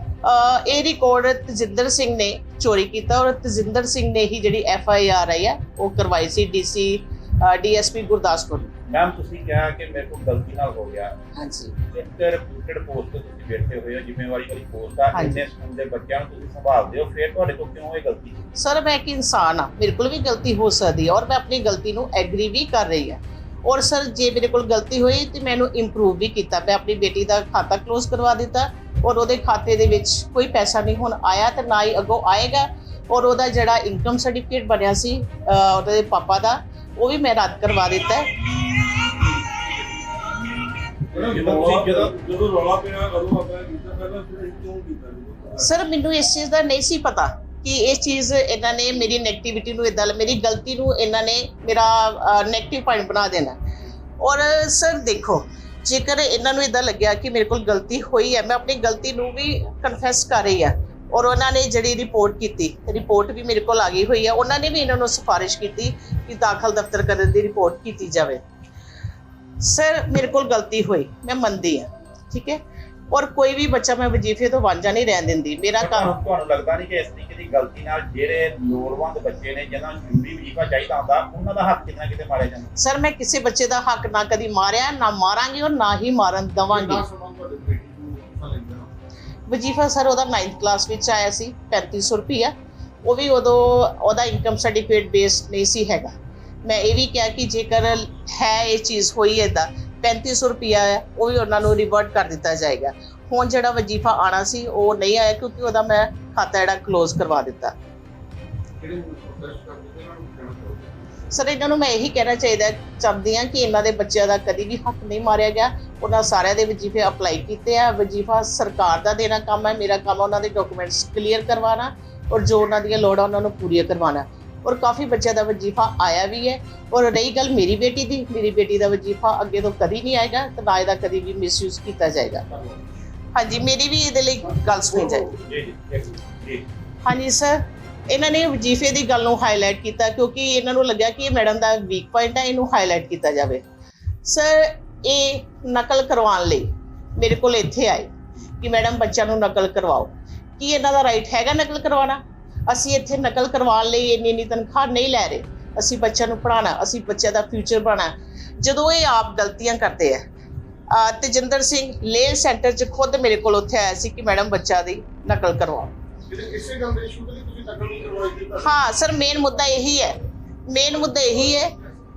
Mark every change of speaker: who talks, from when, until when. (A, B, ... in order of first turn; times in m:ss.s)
0:00.2-0:08.7 A
0:08.9-0:11.1 B
0:11.4-0:11.7 A
0:11.9-0:18.4 B
0:15.1-0:15.5 A
0:18.6-0:38.3 A
0:41.1-0:45.8 C
0:41.2-0:42.1 B
0:45.6-0:53.6 A
0:54.2-1:08.4 A
1:09.6-1:12.6 A
1:13.1-1:16.1 A
1:15.8-1:22.7 B
1:22.8-1:27.1 A
1:26.7-1:28.9 D
1:29.5-1:36.1 A
1:36.6-1:47.7 A
1:48.8-1:51.1 D
1:51.3-2:12.5 A
2:13.4-2:15.3 A
2:15.4-2:16.6 B
2:17.0-2:23.6 A
2:24.2-2:40.2 A
2:40.9-2:45.9 A
2:46.3-2:48.7 D
2:48.6-2:50.2 A
2:50.7-2:51.8 A
2:51.1-2:51.9 D